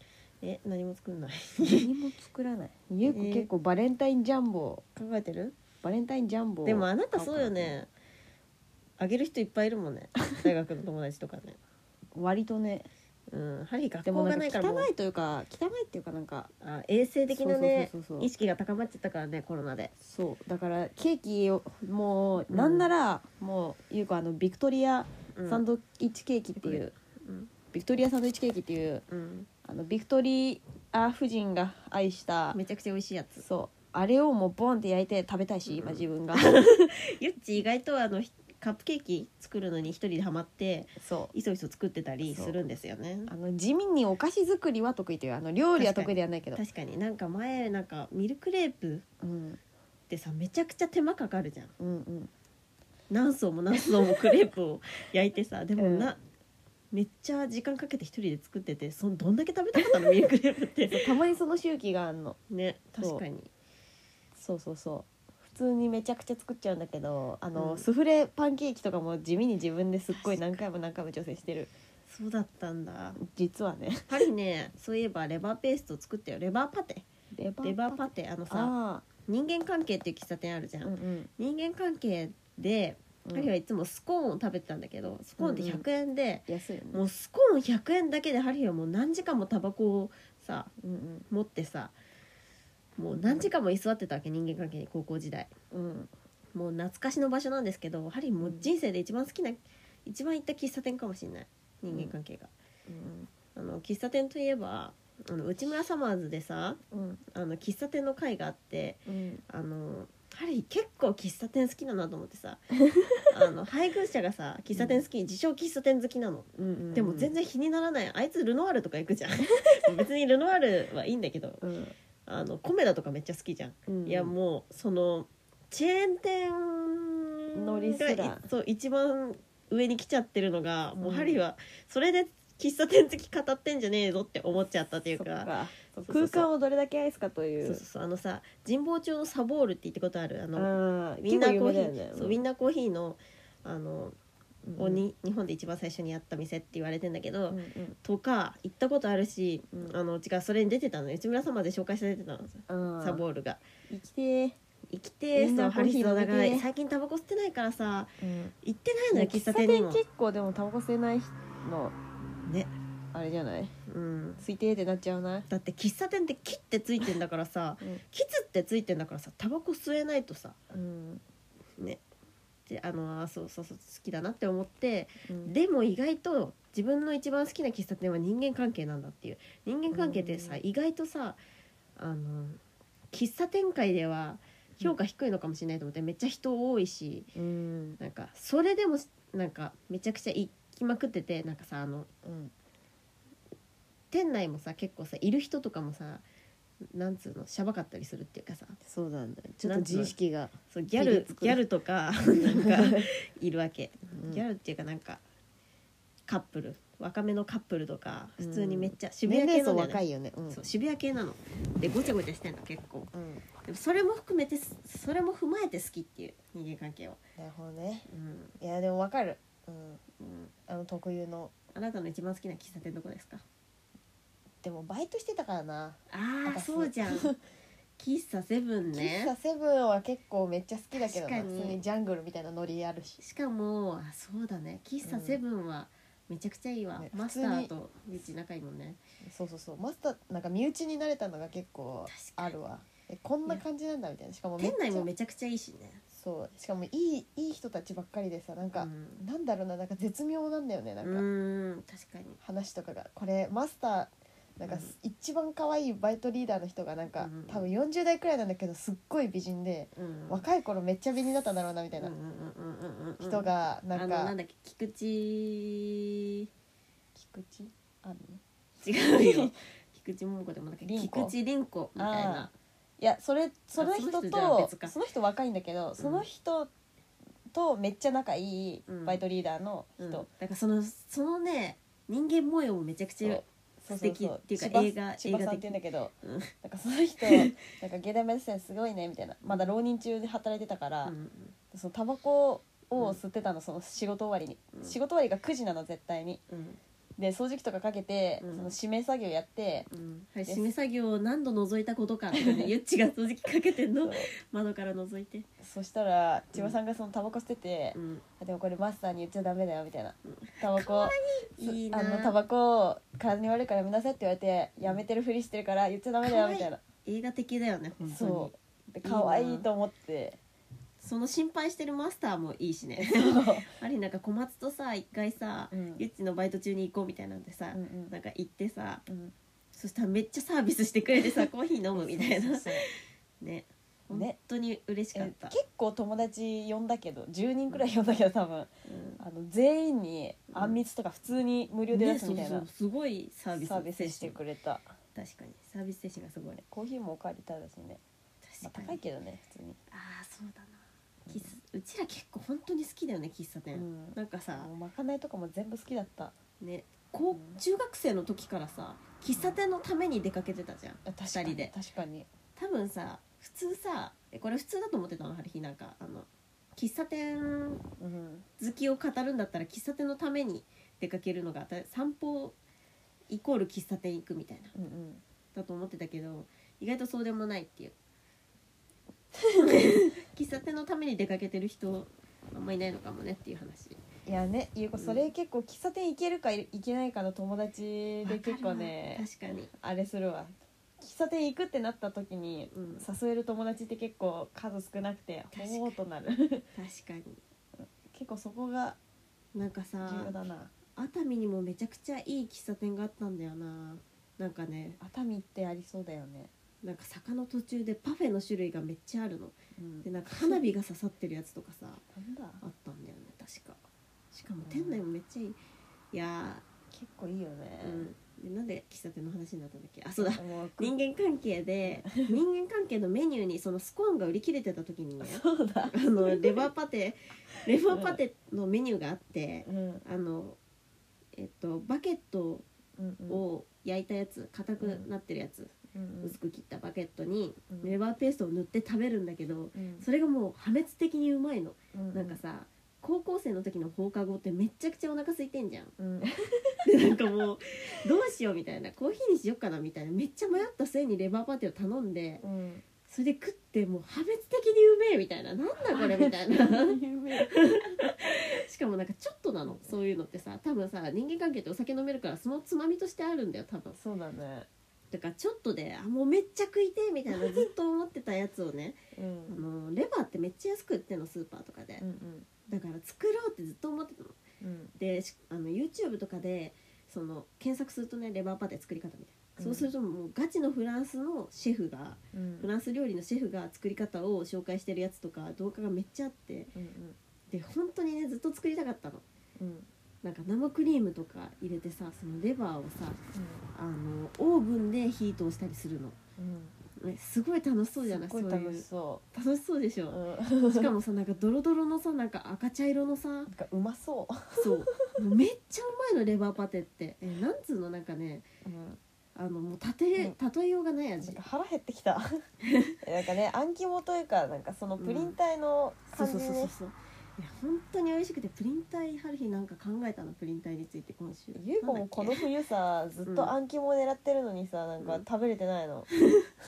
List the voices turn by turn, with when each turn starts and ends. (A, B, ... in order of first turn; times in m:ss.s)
0:00.4-0:01.9 A
0:01.6-0:04.8 B
0:03.0-0:03.5 A
0:04.9-0:05.6 A
0:05.8-0:07.8 B
0:06.6-0:07.9 A
0:09.0-0:11.6 A
0:12.1-0:12.9 B
0:13.3-0:14.9 A
0:14.0-0:16.5 B
0:16.6-0:19.9 A
0:17.3-0:18.3 B
0:20.0-0:26.9 B
0:22.5-0:22.9 A
0:25.3-0:25.6 A
0:26.6-0:27.5 A
0:27.7-0:29.0 B
0:29.1-0:29.5 A
0:29.6-0:32.6 B
0:32.5-0:33.4 A
0:33.4-0:36.9 B
0:35.7-0:43.3 A
0:41.0-0:41.3 B
0:42.3-0:42.6 B
0:43.3-0:46.6 B
0:45.8-0:49.0 A
0:49.2-0:49.6 B
0:50.1-0:51.7 A
0:51.8-0:52.3 B
0:53.1-0:56.2 A
0:55.8-0:56.1 B
0:56.9-1:01.1 A
1:00.9-1:02.4 B
1:02.5-1:03.5 A
1:04.4-1:11.7 B
1:07.6-1:07.9 A
1:10.1-1:10.6 A
1:12.1-1:13.2 A
1:13.2-1:14.3 B
1:14.1-1:17.0 A
1:17.3-1:18.0 B
1:17.6-1:30.7 A
1:18.5-1:19.0 B
1:20.8-1:21.3 B
1:23.2-1:23.5 B
1:25.4-1:25.8 B
1:26.5-1:27.0 B
1:30.8-1:31.3 B
1:31.3-1:31.9 A
1:33.0-1:35.5 A
1:33.2-1:33.5 B
1:35.7-1:36.1 B
1:36.5-1:42.5 A
1:38.4-1:38.7 B
1:42.9-1:43.3 B
1:43.5-1:52.7 A
1:46.9-1:47.2 B
1:49.1-1:49.4 B
1:52.9-1:53.3 B
1:53.3-2:01.6 A
1:54.7-1:55.0 B
1:56.5-1:57.3 B
2:01.6-2:01.9 B
2:02.2-2:15.5 A
2:03.9-2:04.3 B
2:07.6-2:08.4 B
2:11.0-2:11.4 B
2:15.2-2:17.8 B
2:16.0-2:16.5 A
2:17.6-2:20.7 A
2:20.5-2:22.4 B
2:21.2-2:24.2 A
2:24.6-2:25.0 B
2:24.8-2:33.6 A
2:27.5-2:28.0 B
2:32.7-2:33.2 B
2:33.9-2:34.6 B
2:34.9-2:40.0 A
2:35.3-2:36.6 B
2:38.2-2:38.5 B
2:39.1-2:42.0 B
2:42.4-2:42.7 A
2:43.1-2:43.7 B
2:43.9-2:44.4 A
2:44.4-2:45.5 B
2:45.5-2:50.6 A
2:50.7-2:51.2 B
2:52.7-3:01.4 A
2:55.2-2:55.5 B
2:59.9-3:00.6 B
3:02.0-3:02.6 A
3:03.1-3:07.3 A
3:07.3-3:08.0 B
3:08.0-3:12.1 A
3:12.2-3:12.5 B
3:14.1-3:16.2 A
3:16.9-3:18.8 A
3:18.8-3:21.6 B
3:19.6-3:20.1 A
3:20.7-3:25.2 A
3:22.4-3:23.1 B
3:24.1-3:24.4 B
3:26.3-3:33.1 A
3:28.4-3:30.6 B
3:33.1-3:33.4 B
3:33.6-3:37.2 A
3:37.4-3:38.1 B
3:38.1-3:38.5 A
3:38.6-3:41.5 B
3:40.2-3:40.5 A
3:41.7-3:43.4 A
3:44.6-3:47.4 B
3:46.1-3:47.3 A
3:48.0-3:49.3 A
3:48.9-3:53.2 B
3:50.9-3:51.8 A
3:53.2-3:59.0 A
3:55.0-3:55.4 B
3:57.0-3:57.7 B
3:59.2-4:05.1 B
4:02.1-4:02.5 A
4:04.6-4:06.0 A
4:06.1-4:11.2 B
4:08.7-4:09.2 A
4:11.0-4:12.4 A
4:12.4-4:22.1 B
4:14.6-4:14.9 A
4:17.2-4:17.7 A
4:20.0-4:20.4 A
4:22.0-4:26.5 A
4:23.2-4:24.3 B
4:27.1-4:28.4 B
4:28.8-4:32.5 A
4:29.0-4:29.5 B
4:30.8-4:31.3 B
4:32.0-4:36.7 B
4:33.8-4:34.9 A
4:36.0-4:36.2 A
4:37.5-4:40.3 B
4:38.8-4:39.2 A
4:40.0-4:46.5 A
4:43.2-4:51.1 B
4:47.2-4:47.6 A
4:49.4-4:49.7 A
4:51.0-4:51.5 A
4:51.7-4:56.4 B
4:56.5-4:56.8 A
4:57.2-4:59.9 B
4:58.4-4:58.7 A
4:59.9-5:05.5 A
5:02.3-5:02.7 B
5:04.0-5:04.3 B
5:05.6-5:16.8 B
5:07.9-5:08.2 A
5:10.2-5:12.4 A
5:16.2-5:19.7 A
5:18.0-5:20.4 B
5:21.0-5:29.0 A
5:23.0-5:23.7 B
5:25.7-5:26.0 B
5:27.7-5:28.1 B
5:29.1-5:29.3 B
5:29.7-5:35.6 A
5:31.9-5:32.8 B
5:35.1-5:42.6 B
5:38.9-5:39.2 A
5:40.5-5:40.8 A
5:41.9-5:44.4 A
5:43.5-5:44.9 B
5:45.1-5:46.6 A
5:46.7-5:48.0 B
5:48.4-5:49.0 A
5:48.6-5:49.8 B
5:49.9-5:54.7 A
5:51.2-5:51.5 B
5:53.7-5:56.3 B
5:56.6-6:01.7 A
5:57.3-5:57.6 B
5:59.3-5:59.6 B
6:01.0-6:02.3 B
6:02.6-6:07.8 A
6:08.0-6:08.4 B
6:08.6-6:12.6 A
6:13.3-6:14.7 A
6:14.7-6:15.2 B
6:15.5-6:17.9 A
6:19.4-6:20.0 B
6:19.6-6:24.0 A
6:24.2-6:36.6 B
6:25.0-6:25.3 A
6:28.2-6:29.7 A
6:32.7-6:33.0 A
6:35.5-6:36.0 A
6:36.7-6:37.4 A
6:37.8-6:39.0 B
6:39.5-6:40.3 A
6:40.0-6:40.7 B
6:40.9-6:45.0 A
6:45.0-6:46.5 B
6:46.8-6:52.0 A
6:49.8-6:50.6 B
6:52.1-6:52.6 B
6:52.6-6:53.8 A
6:54.3-6:55.6 A
6:54.6-6:55.0 B
6:56.1-6:56.6 A
6:56.9-6:58.1 B
6:57.8-7:10.6 A
7:00.2-7:00.9 B
7:01.8-7:02.4 B
7:05.2-7:06.7 B
7:07.9-7:08.2 B
7:09.6-7:10.0 B
7:11.4-7:12.6 A
7:13.0-7:13.4 B
7:13.3-7:25.9 A
7:14.8-7:15.1 B
7:15.9-7:16.3 B
7:17.7-7:18.0 B
7:19.7-7:20.0 B
7:21.9-7:22.4 B
7:26.0-7:26.8 B
7:26.8-7:32.4 A
7:32.4-7:32.8 B
7:33.1-7:44.0 A
7:35.9-7:38.2 B
7:44.0-7:44.7 B
7:45.1-7:52.0 A
7:49.1-7:49.6 B
7:52.0-7:52.5 B
7:52.7-7:54.4 A
7:54.6-7:54.9 B
7:55.0-8:06.7 A
7:59.6-7:59.9 B
8:02.3-8:02.7 B
8:06.7-8:07.2 B
8:07.5-8:09.2 A
8:09.6-8:09.9 B
8:10.2-8:13.2 A
8:13.3-8:13.6 B
8:13.7-8:16.2 A
8:16.4-8:16.7 B
8:17.0-8:23.5 A
8:18.0-8:19.2 B
8:20.1-8:20.9 B
8:23.5-8:25.1 B
8:24.6-8:28.5 A
8:28.6-8:29.0 B
8:29.4-8:31.4 A
8:31.2-8:32.4 B
8:32.6-8:33.0 A
8:33.0-8:36.7 B
8:35.0-8:35.4 A
8:36.1-8:42.5 A
8:41.5-8:46.1 B
8:43.2-8:43.5 A